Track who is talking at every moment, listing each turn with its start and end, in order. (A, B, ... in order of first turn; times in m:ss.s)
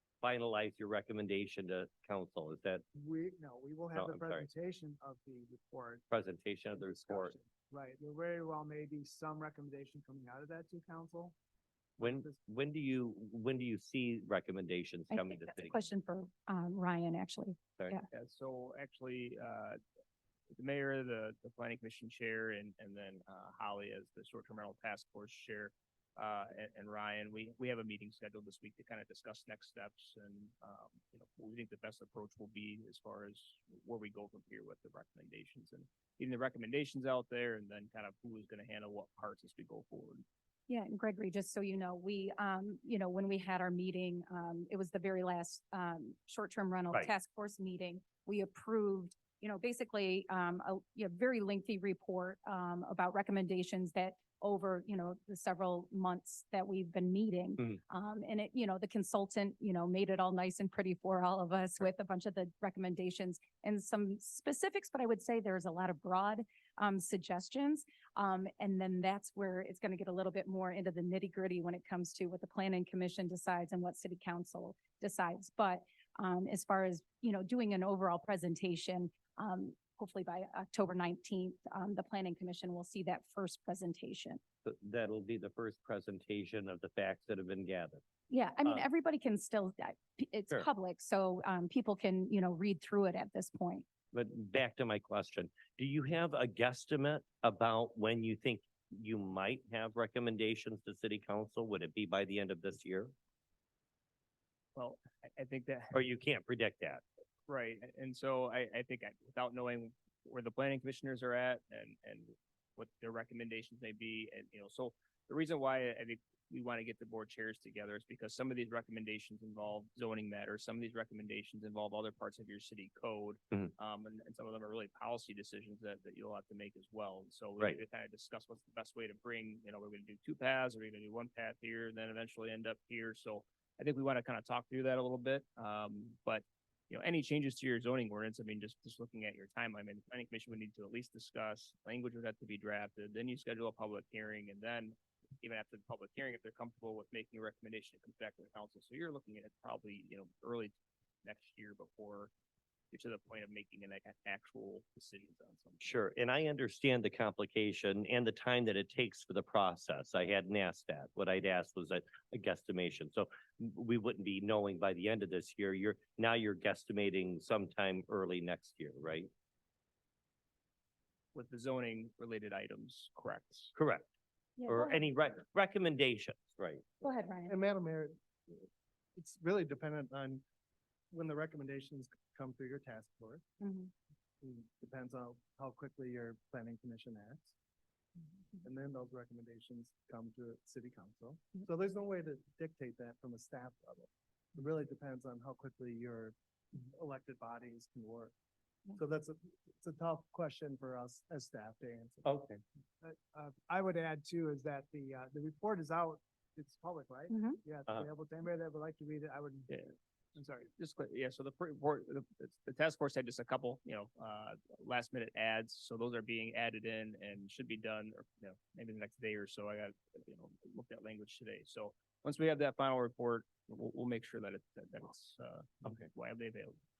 0:00.2-0:02.8 A
0:02.9-0:06.1 B
0:03.9-0:04.5 A
0:06.1-0:07.4 A
0:07.0-0:11.4 B
0:12.0-0:12.4 B
0:12.0-0:15.8 A
0:15.1-0:18.0 C
0:18.1-0:19.8 D
0:20.5-0:40.2 D
0:40.7-1:24.4 C
1:24.6-1:28.0 A
1:28.3-1:33.9 C
1:34.1-1:43.1 A
1:44.8-1:46.0 D
1:45.9-1:47.0 A
1:47.5-2:32.3 D
2:32.9-2:35.9 D
2:35.8-2:49.3 A
2:51.3-2:53.7 D
2:53.8-2:54.1 A
2:54.6-2:55.1 C
2:54.7-2:56.8 A
2:57.0-2:57.6 C
2:57.5-3:00.4 E
3:01.1-3:03.4 E
3:03.6-3:03.9 C
3:04.4-3:07.5 E
3:08.6-3:18.3 E
3:18.9-3:22.3 E
3:22.2-3:22.6 A
3:23.0-3:29.7 B
3:27.3-3:27.6 C
3:30.4-3:30.7 B
3:30.8-3:46.8 D